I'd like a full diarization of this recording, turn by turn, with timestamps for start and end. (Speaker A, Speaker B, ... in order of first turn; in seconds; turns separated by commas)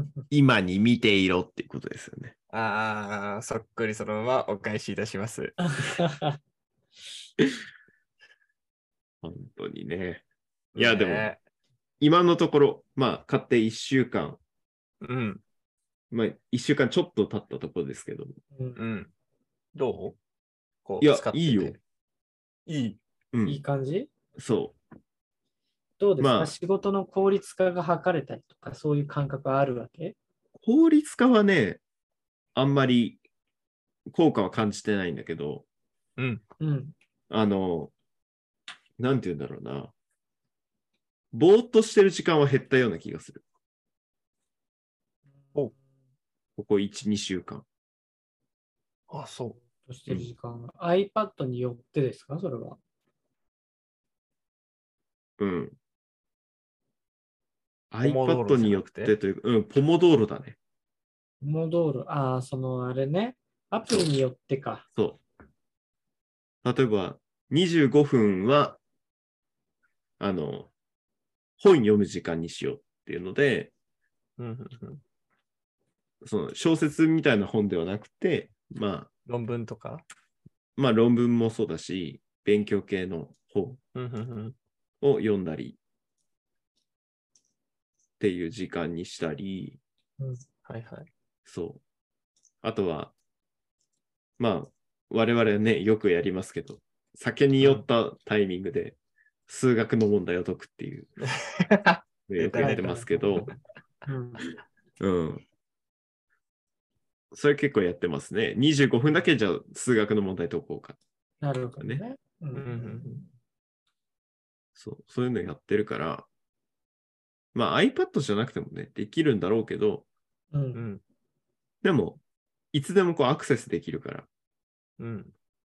Speaker A: 0.3-2.3, Speaker B: 2.5-5.6, Speaker C: 5.7-6.4, Speaker A: 9.2-10.2, Speaker B: 10.7-11.4, Speaker A: 10.8-11.3, Speaker A: 12.0-14.4, Speaker B: 15.0-15.4, Speaker A: 16.1-18.3, Speaker B: 18.8-19.1, Speaker B: 19.7-20.2, Speaker B: 20.8-21.8, Speaker A: 21.0-21.8, Speaker B: 22.7-23.0, Speaker A: 23.3-23.6, Speaker C: 23.4-24.1, Speaker A: 24.4-24.8, Speaker C: 26.0-30.1, Speaker A: 26.2-26.5, Speaker A: 30.6-31.8, Speaker A: 32.5-33.2, Speaker A: 34.1-35.6, Speaker C: 36.6-36.9, Speaker A: 37.3-37.9, Speaker A: 39.0-39.9, Speaker A: 41.3-43.4, Speaker A: 46.6-47.6, Speaker B: 49.1-49.6, Speaker C: 49.8-52.8, Speaker A: 55.4-55.8, Speaker A: 57.9-60.6, Speaker B: 58.0-59.1, Speaker C: 61.4-64.8, Speaker A: 64.9-65.2, Speaker A: 66.6-68.8, Speaker A: 70.2-70.7, Speaker A: 71.6-73.7, Speaker B: 74.4-75.0, Speaker A: 76.2-79.1, Speaker B: 79.2-80.0, Speaker A: 80.8-83.8, Speaker B: 83.9-84.5, Speaker A: 85.0-85.8, Speaker A: 88.2-89.8, Speaker B: 90.6-91.1, Speaker A: 91.5-91.8, Speaker A: 92.6-93.1, Speaker A: 94.4-99.0, Speaker B: 97.6-97.8, Speaker A: 99.5-101.1, Speaker B: 101.2-102.9, Speaker A: 102.3-103.5, Speaker C: 102.6-103.5, Speaker C: 104.0-104.5, Speaker A: 105.0-105.4, Speaker A: 107.3-111.0, Speaker C: 111.4-113.3, Speaker B: 112.5-113.2, Speaker A: 114.8-116.3, Speaker A: 117.5-120.0, Speaker C: 120.5-120.8, Speaker B: 120.7-121.0, Speaker A: 121.8-122.2, Speaker A: 122.7-124.3, Speaker B: 125.0-125.3